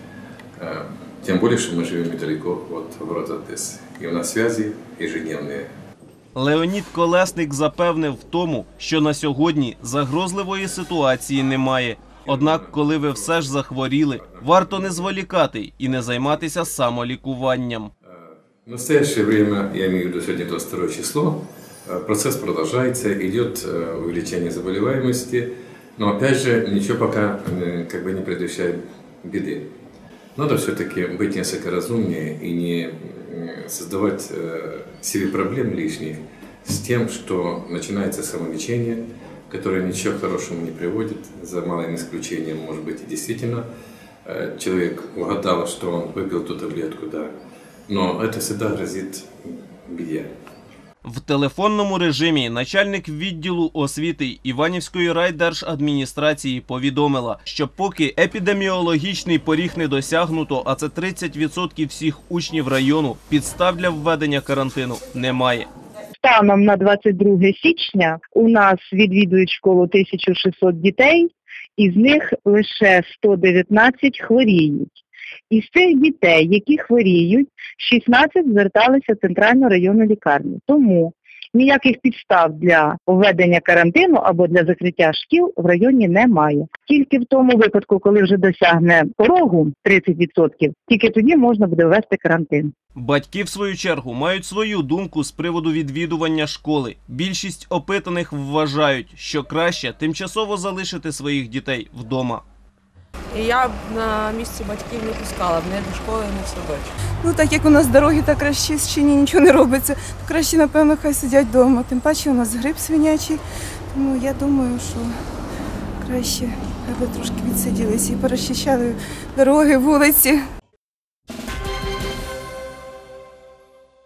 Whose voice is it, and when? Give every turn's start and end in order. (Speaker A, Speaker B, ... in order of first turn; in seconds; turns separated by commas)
Speaker A: 0.6-5.7, Speaker B: 6.3-17.9, Speaker A: 12.3-13.4, Speaker A: 14.1-15.1, Speaker A: 18.1-29.6, Speaker A: 30.4-43.6, Speaker A: 44.2-47.3, Speaker A: 47.9-50.3, Speaker B: 51.0-65.7, Speaker C: 66.2-74.9, Speaker C: 75.5-92.7, Speaker B: 93.0-102.4, Speaker D: 103.3-106.9, Speaker E: 107.2-113.4, Speaker E: 113.9-115.2, Speaker E: 116.0-120.4